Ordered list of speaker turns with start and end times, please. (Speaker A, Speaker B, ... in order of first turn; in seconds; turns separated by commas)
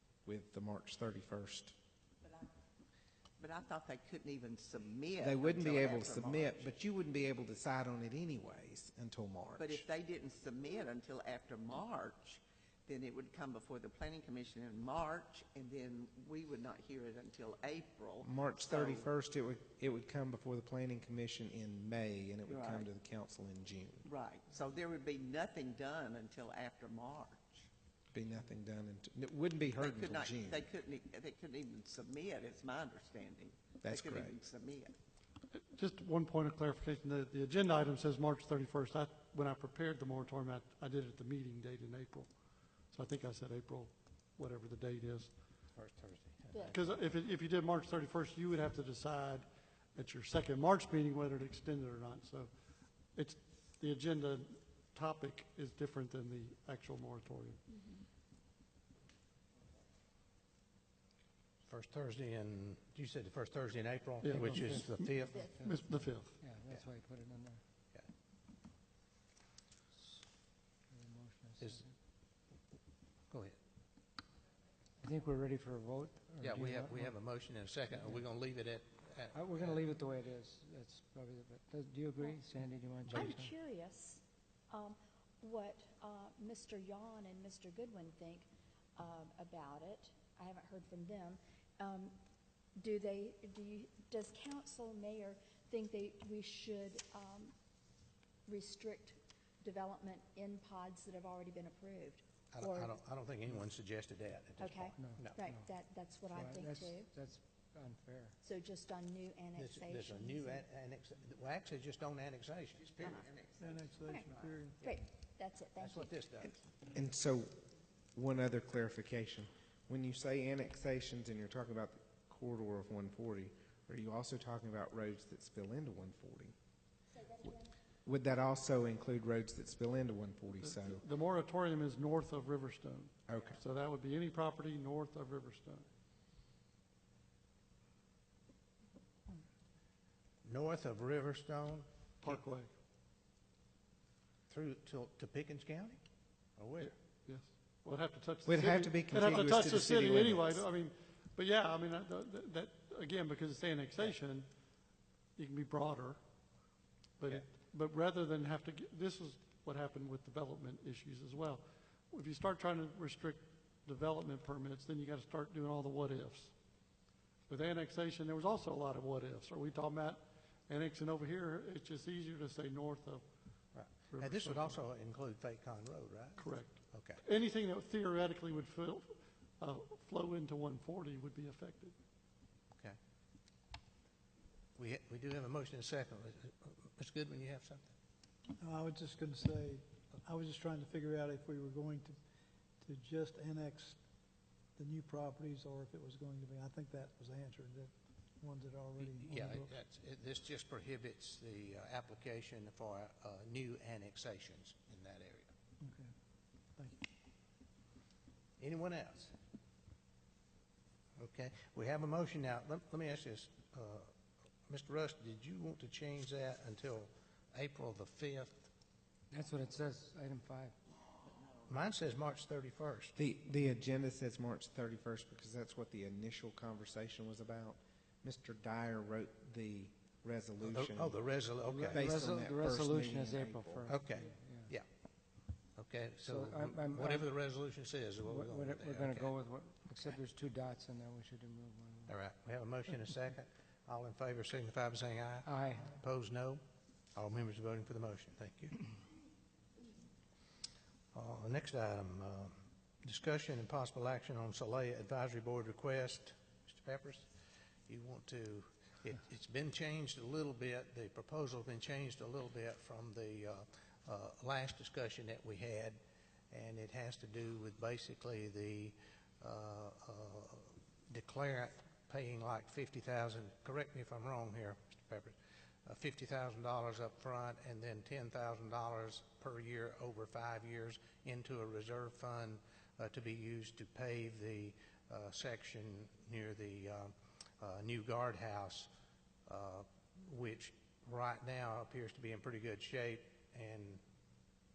Speaker A: 0.2-1.8, Speaker B: 2.2-2.5, Speaker B: 3.4-6.7, Speaker A: 5.2-9.9, Speaker B: 9.6-19.1, Speaker A: 18.2-24.1, Speaker B: 22.5-22.9, Speaker B: 24.1-27.7, Speaker A: 28.1-30.6, Speaker B: 29.8-34.9, Speaker A: 33.8-34.4, Speaker C: 35.5-42.3, Speaker C: 42.9-45.4, Speaker D: 45.7-47.2, Speaker C: 46.6-52.5, Speaker C: 53.1-57.9, Speaker D: 61.7-65.5, Speaker C: 64.2-66.4, Speaker E: 64.3-67.6, Speaker E: 70.0-70.2, Speaker E: 70.9-71.9, Speaker D: 73.3-73.6, Speaker E: 75.0-77.2, Speaker D: 76.4-79.8, Speaker E: 77.9-78.2, Speaker E: 79.3-83.5, Speaker F: 83.2-84.1, Speaker F: 84.7-92.2, Speaker F: 92.8-97.5, Speaker F: 98.5-99.1, Speaker F: 99.6-102.9, Speaker D: 102.5-105.4, Speaker E: 105.0-105.7, Speaker F: 105.4-107.1, Speaker C: 105.7-106.7, Speaker E: 106.3-108.4, Speaker F: 108.4-110.4, Speaker D: 109.6-113.5, Speaker G: 113.6-115.1, Speaker C: 114.8-116.1, Speaker D: 115.8-116.6, Speaker A: 116.9-117.5, Speaker A: 118.2-126.6, Speaker A: 128.1-131.0, Speaker C: 130.7-135.9, Speaker A: 133.3-133.6, Speaker D: 140.4-142.4, Speaker C: 142.2-142.7, Speaker D: 144.5-146.0, Speaker D: 146.6-146.9, Speaker C: 147.3-154.5, Speaker A: 148.4-150.5, Speaker C: 155.4-156.2, Speaker C: 157.2-166.5, Speaker C: 167.5-173.2, Speaker D: 173.7-177.2, Speaker C: 174.1-174.8, Speaker C: 176.4-181.9, Speaker D: 184.8-187.9, Speaker G: 188.6-192.2, Speaker G: 192.8-194.0, Speaker G: 194.8-199.7, Speaker D: 199.0-205.5, Speaker G: 205.8-206.1, Speaker D: 208.6-209.3, Speaker D: 211.2-214.1, Speaker D: 214.7-218.7, Speaker E: 219.3-220.7, Speaker D: 221.7-223.1, Speaker A: 223.2-231.2, Speaker D: 230.6-232.1, Speaker E: 231.6-234.7, Speaker A: 231.9-233.9, Speaker D: 233.9-234.8, Speaker D: 235.8-239.3, Speaker E: 236.2-237.3, Speaker E: 238.2-242.2, Speaker D: 242.1-246.6, Speaker E: 245.4-245.9, Speaker D: 247.2-248.8, Speaker D: 251.1-257.3, Speaker D: 257.9-266.0, Speaker D: 266.5-275.4, Speaker D: 275.9-288.9, Speaker D: 289.5-294.0